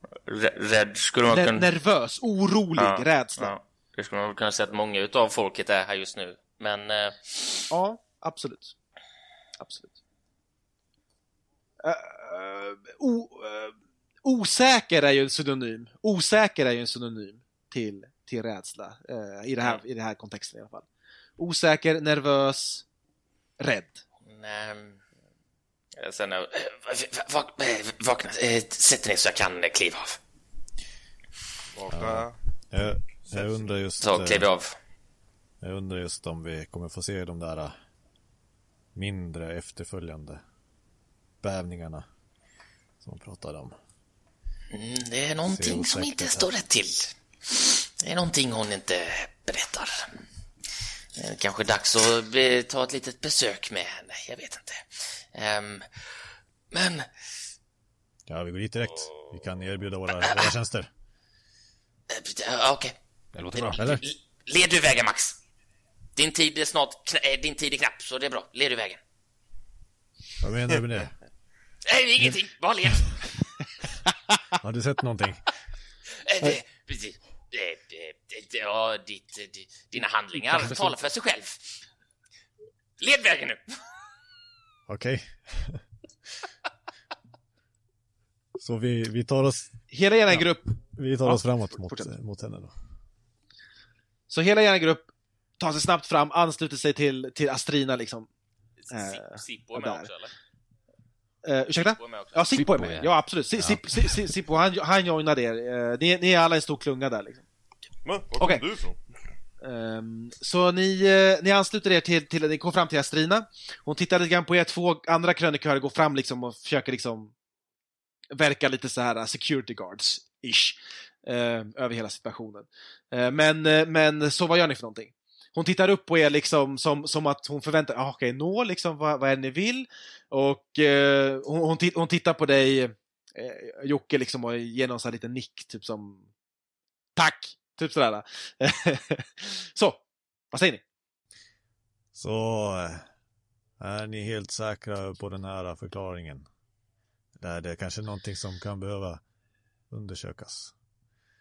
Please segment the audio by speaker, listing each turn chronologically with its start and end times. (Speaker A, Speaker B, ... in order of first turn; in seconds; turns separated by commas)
Speaker A: 0.2-1.7, Speaker B: 1.3-3.5, Speaker A: 2.8-7.6, Speaker B: 7.7-8.7, Speaker B: 9.6-9.9, Speaker B: 11.8-13.7, Speaker B: 14.2-20.9, Speaker B: 21.4-22.9, Speaker B: 23.6-24.0, Speaker A: 24.2-25.0, Speaker A: 25.9-30.2, Speaker C: 31.7-32.3, Speaker D: 31.9-34.5, Speaker C: 33.2-33.7, Speaker A: 34.0-34.7, Speaker D: 35.6-37.7, Speaker D: 38.9-40.4, Speaker D: 41.4-42.0, Speaker D: 43.0-43.7, Speaker A: 44.7-50.1, Speaker D: 45.4-46.5, Speaker A: 51.1-55.9, Speaker A: 56.7-57.1, Speaker D: 58.3-60.9, Speaker A: 60.2-60.5, Speaker A: 62.1-63.0, Speaker E: 63.3-64.0, Speaker A: 63.5-65.4, Speaker D: 63.8-64.0, Speaker A: 66.2-69.0, Speaker D: 70.4-71.1, Speaker A: 71.8-73.3, Speaker D: 74.6-75.4, Speaker A: 76.2-81.8, Speaker A: 83.0-83.8, Speaker D: 84.9-85.8, Speaker D: 88.5-89.8, Speaker B: 89.9-92.1, Speaker D: 90.3-92.7, Speaker B: 94.3-98.3, Speaker A: 98.9-100.3, Speaker B: 98.9-100.1, Speaker B: 101.4-107.4, Speaker A: 102.0-102.4, Speaker E: 102.5-104.1, Speaker C: 108.0-109.0, Speaker B: 108.4-108.6, Speaker B: 109.6-117.3, Speaker B: 118.3-136.3, Speaker B: 137.2-140.0, Speaker B: 140.5-140.8, Speaker D: 142.1-143.0, Speaker D: 143.8-146.5, Speaker D: 147.4-149.2, Speaker D: 149.9-150.7